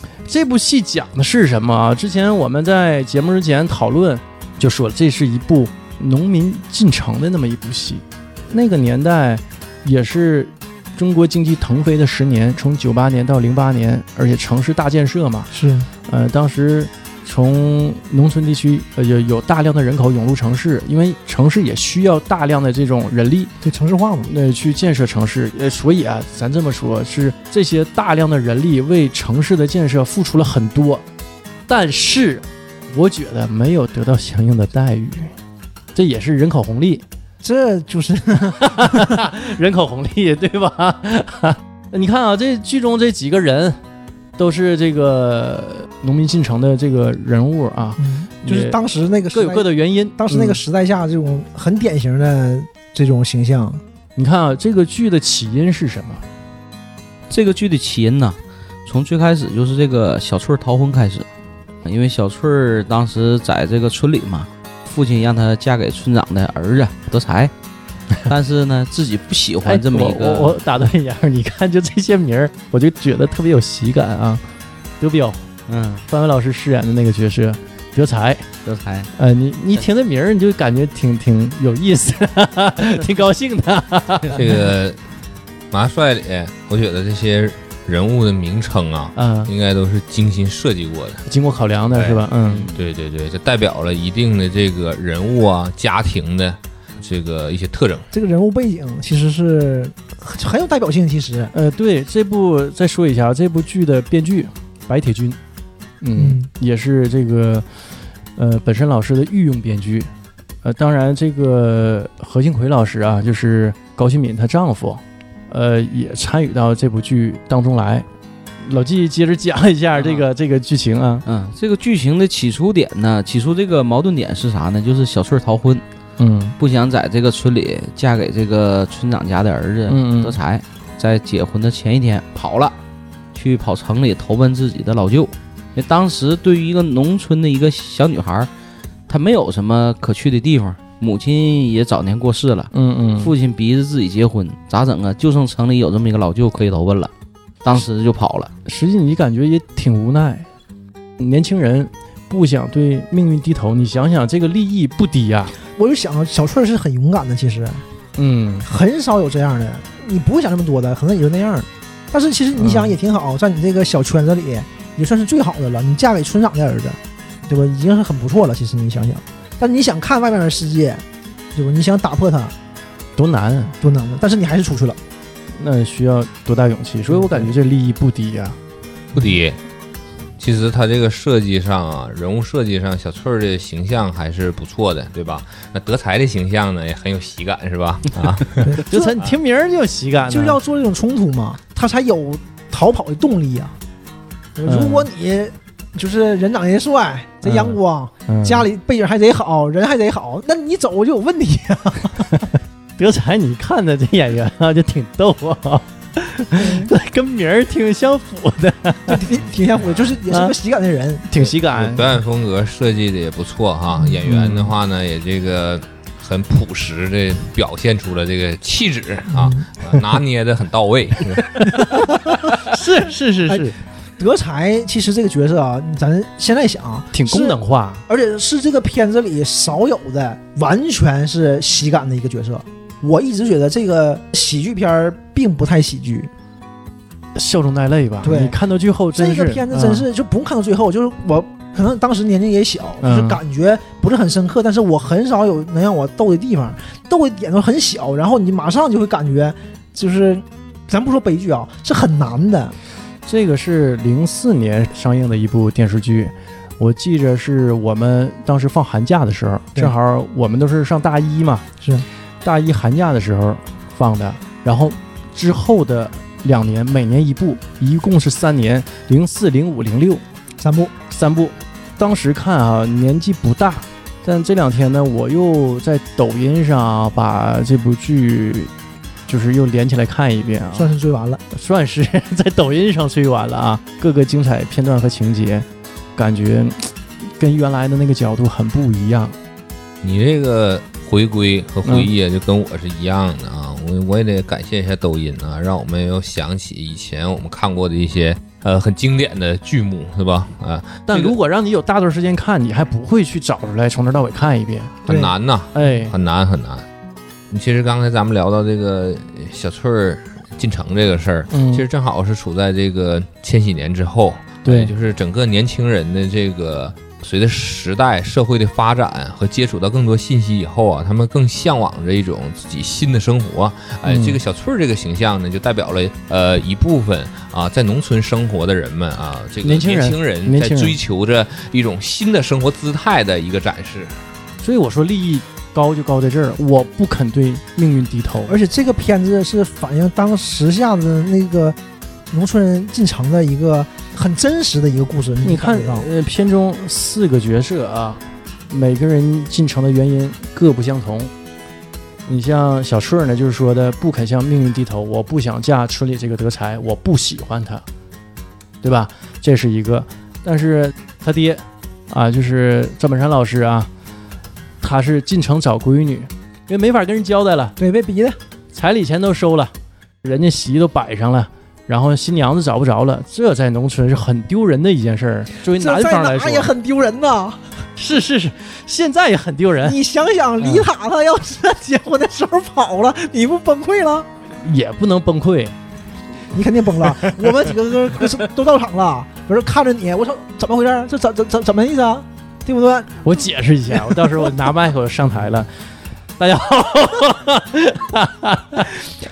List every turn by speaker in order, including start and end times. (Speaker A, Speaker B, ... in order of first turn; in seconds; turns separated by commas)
Speaker A: 0.2-15.5, Speaker B: 15.5-15.9, Speaker A: 16.1-23.5, Speaker B: 23.6-24.3, Speaker A: 24.3-31.0, Speaker A: 31.7-35.3, Speaker A: 36.0-37.0, Speaker B: 37.4-39.2, Speaker A: 38.4-43.8, Speaker A: 44.4-48.8, Speaker B: 48.0-53.8, Speaker A: 49.3-50.6, Speaker A: 54.2-56.2, Speaker C: 57.3-61.3, Speaker C: 61.8-67.5, Speaker C: 68.2-70.6, Speaker A: 69.6-74.4, Speaker A: 75.0-75.4, Speaker C: 75.7-76.0, Speaker A: 76.1-78.5, Speaker C: 78.7-79.1, Speaker A: 79.2-84.7, Speaker D: 84.3-85.0, Speaker D: 85.7-91.2, Speaker A: 89.2-89.5, Speaker A: 91.3-92.7, Speaker D: 91.9-92.2, Speaker C: 92.5-92.8, Speaker D: 92.8-98.1, Speaker B: 98.1-101.5, Speaker A: 101.5-105.4, Speaker A: 106.0-107.7, Speaker B: 106.2-106.5, Speaker A: 108.4-110.1, Speaker A: 110.6-118.1, Speaker A: 118.6-121.2, Speaker C: 120.0-120.3, Speaker C: 121.2-125.8, Speaker A: 126.2-126.6, Speaker C: 126.6-132.8, Speaker A: 129.9-130.4, Speaker C: 133.3-138.5, Speaker C: 139.1-147.1, Speaker A: 142.7-143.3, Speaker C: 147.6-148.5, Speaker A: 148.7-150.5, Speaker A: 151.2-155.5, Speaker B: 155.8-157.8, Speaker A: 158.2-158.7, Speaker B: 158.6-171.0, Speaker A: 162.6-163.0, Speaker B: 171.6-172.5, Speaker A: 173.2-173.8, Speaker B: 173.8-175.0, Speaker A: 175.6-178.6, Speaker B: 177.1-177.5, Speaker D: 179.2-179.6, Speaker D: 180.4-188.8, Speaker B: 188.6-189.1, Speaker A: 188.7-190.6, Speaker B: 190.3-193.8, Speaker B: 194.6-202.5, Speaker A: 194.7-195.1, Speaker A: 197.4-198.7, Speaker A: 203.0-209.3, Speaker B: 206.6-206.9, Speaker B: 209.1-211.3, Speaker A: 210.2-210.6, Speaker A: 211.3-212.2, Speaker D: 211.4-221.7, Speaker A: 214.2-214.7, Speaker B: 219.3-219.7, Speaker A: 221.4-223.8, Speaker B: 221.8-222.3, Speaker B: 223.5-236.3, Speaker A: 227.1-228.0, Speaker A: 237.3-240.1, Speaker B: 238.2-238.6, Speaker B: 239.2-252.8, Speaker A: 243.0-243.4, Speaker A: 253.2-261.6, Speaker B: 261.8-262.1, Speaker A: 262.4-270.2, Speaker B: 270.6-270.9, Speaker A: 271.1-278.7, Speaker A: 279.3-280.9, Speaker B: 280.7-281.4, Speaker A: 281.5-289.4, Speaker D: 290.0-301.4, Speaker A: 301.1-305.0, Speaker D: 305.1-306.8, Speaker B: 305.1-305.3, Speaker A: 305.7-306.1, Speaker D: 307.5-334.2, Speaker A: 311.5-311.9, Speaker A: 314.6-314.9, Speaker A: 324.0-324.4, Speaker A: 329.6-331.0, Speaker A: 334.6-338.6, Speaker B: 338.5-341.8, Speaker B: 342.3-346.1, Speaker A: 345.4-351.3, Speaker A: 352.3-357.8, Speaker A: 358.8-363.9, Speaker A: 364.8-367.8, Speaker B: 367.8-368.4, Speaker A: 368.7-376.7, Speaker B: 375.7-377.6, Speaker A: 378.0-380.0, Speaker B: 379.9-384.3, Speaker A: 380.6-380.9, Speaker A: 384.6-385.8, Speaker B: 386.5-393.3, Speaker A: 387.0-388.4, Speaker A: 393.2-395.7, Speaker B: 393.9-394.5, Speaker A: 396.4-399.1